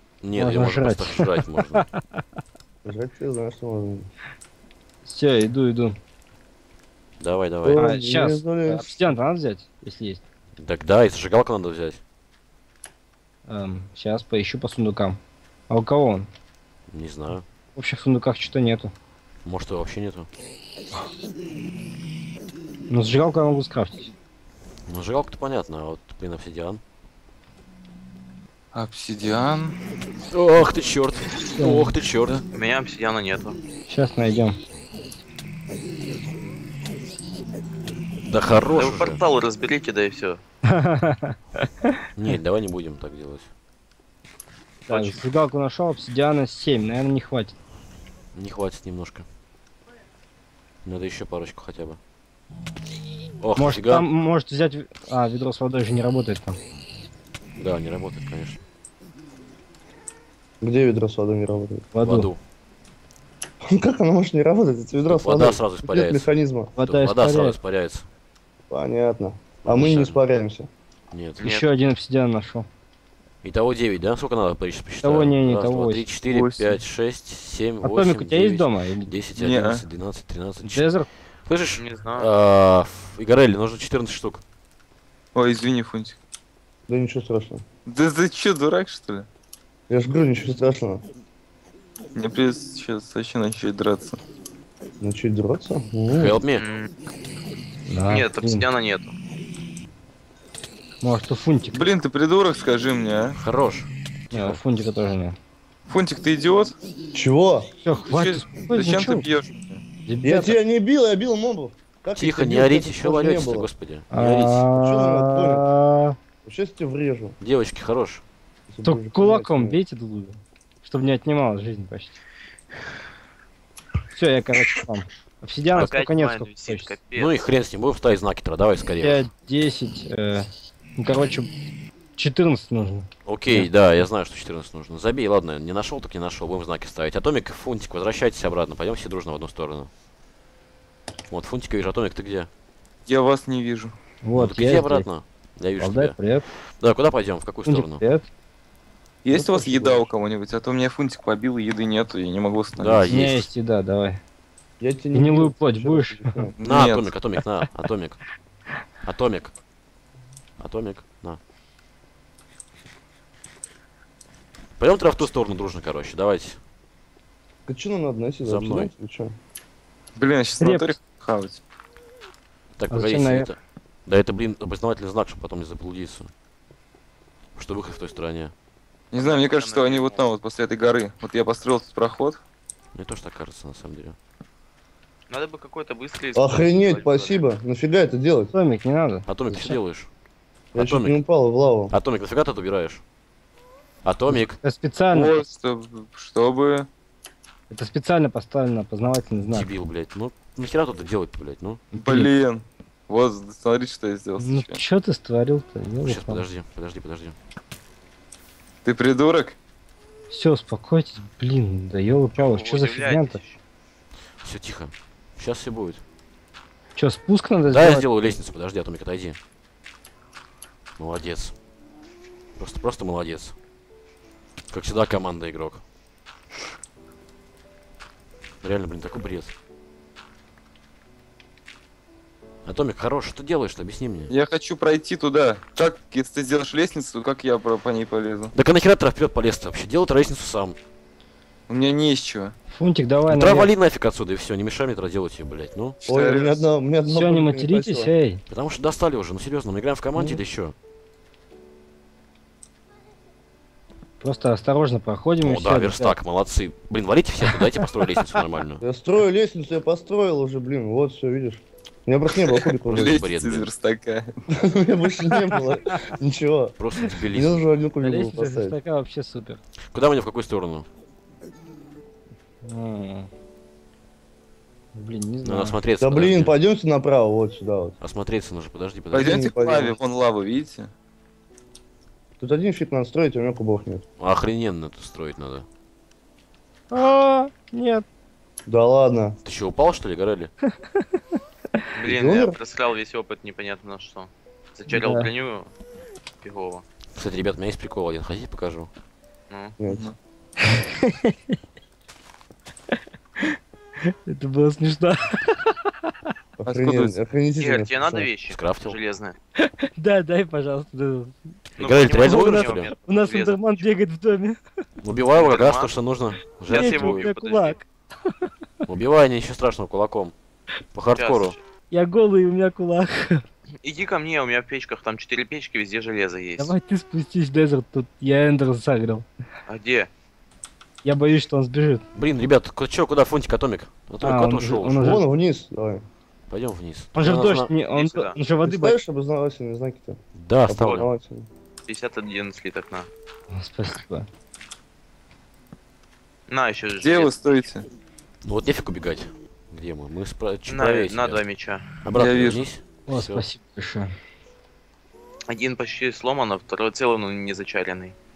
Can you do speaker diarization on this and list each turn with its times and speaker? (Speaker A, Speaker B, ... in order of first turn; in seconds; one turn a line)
Speaker A: 0.2-1.8
Speaker B: 0.4-1.8
Speaker C: 2.8-4.1
Speaker B: 5.0-6.0
Speaker A: 7.2-7.9
Speaker C: 7.6-9.1
Speaker B: 7.7-10.2
Speaker A: 10.6-12.0
Speaker B: 13.5-15.2
Speaker B: 15.7-16.3
Speaker A: 16.9-17.4
Speaker B: 17.7-18.9
Speaker A: 19.4-20.3
Speaker B: 22.9-24.1
Speaker A: 24.9-26.8
Speaker D: 28.7-29.8
Speaker A: 30.3-32.5
Speaker B: 31.6-31.9
Speaker E: 32.5-33.6
Speaker B: 33.9-34.6
Speaker A: 38.2-39.2
Speaker E: 38.7-40.4
Speaker B: 40.7-42.0
Speaker A: 42.1-43.5
Speaker E: 44.9-45.2
Speaker B: 44.9-47.5
Speaker A: 48.3-49.2
Speaker A: 50.8-52.0
Speaker A: 53.4-54.0
Speaker B: 53.5-56.6
Speaker A: 57.6-58.6
Speaker C: 60.6-61.9
Speaker B: 61.9-62.3
Speaker A: 62.0-62.4
Speaker C: 63.6-66.7
Speaker A: 65.1-68.0
Speaker B: 66.8-67.6
Speaker C: 68.7-70.7
Speaker A: 69.6-70.2
Speaker A: 71.1-71.4
Speaker E: 71.4-71.7
Speaker B: 71.4-72.7
Speaker A: 73.4-80.9
Speaker B: 75.0-76.1
Speaker D: 76.2-76.8
Speaker B: 77.8-79.1
Speaker D: 79.3-79.8
Speaker B: 80.6-81.1
Speaker A: 81.5-84.4
Speaker E: 81.8-82.3
Speaker D: 85.3-86.2
Speaker C: 86.9-87.6
Speaker D: 87.8-89.3
Speaker C: 89.9-91.0
Speaker D: 92.1-94.2
Speaker C: 95.0-96.4
Speaker A: 96.1-96.7
Speaker E: 96.6-96.9
Speaker B: 97.9-98.6
Speaker E: 98.1-99.2
Speaker B: 101.0-101.9
Speaker D: 101.7-103.4
Speaker A: 103.3-104.6
Speaker B: 104.3-105.4
Speaker D: 105.9-106.8
Speaker C: 107.1-107.7
Speaker B: 107.8-109.3
Speaker D: 108.0-109.8
Speaker B: 110.0-110.6
Speaker C: 110.2-113.7
Speaker A: 112.2-114.7
Speaker B: 114.1-116.2
Speaker C: 114.7-115.7
Speaker C: 116.4-117.3
Speaker A: 117.4-118.2
Speaker C: 118.7-119.8
Speaker B: 118.8-122.2
Speaker B: 124.1-126.9
Speaker A: 125.7-126.0
Speaker E: 125.7-127.4
Speaker A: 127.2-129.2
Speaker B: 129.0-131.5
Speaker B: 132.2-133.7
Speaker A: 133.2-139.9
Speaker A: 141.3-142.5
Speaker D: 143.1-143.9
Speaker B: 144.2-145.1
Speaker A: 144.3-146.2
Speaker B: 145.8-146.4
Speaker A: 146.8-148.0
Speaker B: 147.7-148.2
Speaker D: 149.2-153.2
Speaker C: 149.3-150.1
Speaker A: 152.8-153.5
Speaker B: 153.1-154.2
Speaker C: 154.8-156.6
Speaker B: 155.1-156.5
Speaker D: 156.6-157.1
Speaker A: 156.6-158.2
Speaker A: 159.0-159.5
Speaker A: 160.6-161.4
Speaker A: 164.8-166.6
Speaker C: 167.7-169.3
Speaker A: 168.4-168.9
Speaker D: 170.2-171.6
Speaker B: 170.6-170.9
Speaker A: 172.8-176.3
Speaker B: 172.9-173.5
Speaker A: 177.6-178.5
Speaker D: 179.1-182.4
Speaker E: 179.1-180.3
Speaker A: 182.9-184.2
Speaker E: 185.3-187.4
Speaker C: 186.3-188.5
Speaker B: 188.5-189.8
Speaker A: 189.3-190.1
Speaker A: 190.7-191.2
Speaker C: 190.7-191.9
Speaker A: 191.9-193.0
Speaker A: 194.0-194.6
Speaker B: 194.6-195.3
Speaker D: 195.1-196.9
Speaker B: 197.7-199.7
Speaker A: 199.5-201.9
Speaker B: 201.9-202.3
Speaker D: 201.9-204.8
Speaker B: 204.4-206.4
Speaker A: 206.0-207.3
Speaker D: 208.8-209.6
Speaker B: 210.3-213.4
Speaker E: 212.3-213.6
Speaker A: 214.4-216.0
Speaker B: 216.9-218.3
Speaker A: 217.7-219.4
Speaker A: 221.0-221.5
Speaker A: 222.6-223.5
Speaker A: 224.7-225.8
Speaker A: 228.6-229.5
Speaker A: 232.6-234.3
Speaker D: 234.3-238.5
Speaker A: 238.5-240.8
Speaker D: 241.7-242.5
Speaker B: 242.7-243.7
Speaker A: 243.3-246.0
Speaker D: 246.0-246.7
Speaker C: 246.1-248.1
Speaker B: 247.1-248.4
Speaker A: 248.5-250.7
Speaker B: 254.2-256.1
Speaker A: 255.4-258.8
Speaker B: 257.6-257.8
Speaker C: 258.8-263.2
Speaker D: 262.4-264.3
Speaker A: 262.9-263.7
Speaker C: 264.5-266.8
Speaker A: 266.8-267.6
Speaker C: 267.3-268.8
Speaker B: 268.0-269.6
Speaker A: 269.9-270.9
Speaker B: 272.6-273.3
Speaker B: 274.9-275.8
Speaker A: 275.4-276.5
Speaker C: 276.0-277.9
Speaker A: 278.0-279.5
Speaker C: 279.1-279.9
Speaker D: 279.1-280.9
Speaker C: 282.4-284.0
Speaker A: 284.2-285.6
Speaker B: 286.9-288.0
Speaker C: 288.6-289.4
Speaker A: 289.4-290.5
Speaker E: 291.9-295.7
Speaker C: 292.1-292.6
Speaker B: 294.9-295.3
Speaker E: 296.4-296.8
Speaker A: 297.1-298.9
Speaker E: 299.5-299.8
Speaker C: 299.8-300.1
Speaker B: 300.6-301.4
Speaker B: 303.4-306.1
Speaker C: 306.6-308.3
Speaker D: 306.7-307.2
Speaker E: 307.6-309.4
Speaker A: 308.5-309.0
Speaker B: 309.6-311.5
Speaker E: 311.8-313.9
Speaker A: 311.8-312.9
Speaker B: 312.1-314.6
Speaker A: 315.0-317.2
Speaker E: 315.3-316.0
Speaker E: 316.7-317.8
Speaker B: 316.7-318.4
Speaker A: 318.9-320.3
Speaker A: 320.9-321.6
Speaker E: 321.2-321.6
Speaker B: 321.9-323.4
Speaker E: 323.8-326.7
Speaker B: 326.6-329.2
Speaker E: 329.7-330.1
Speaker B: 331.0-332.0
Speaker A: 332.1-335.2
Speaker B: 334.2-335.2
Speaker C: 335.0-336.0
Speaker A: 336.5-337.7
Speaker B: 337.1-339.0
Speaker E: 337.9-338.4
Speaker C: 338.6-341.5
Speaker A: 340.4-341.1
Speaker E: 341.9-343.1
Speaker B: 343.5-344.3
Speaker E: 346.5-347.7
Speaker D: 347.0-347.9
Speaker A: 348.4-351.4
Speaker E: 350.7-351.9
Speaker A: 352.0-353.4
Speaker D: 352.1-352.6
Speaker B: 353.1-354.1
Speaker E: 355.5-358.1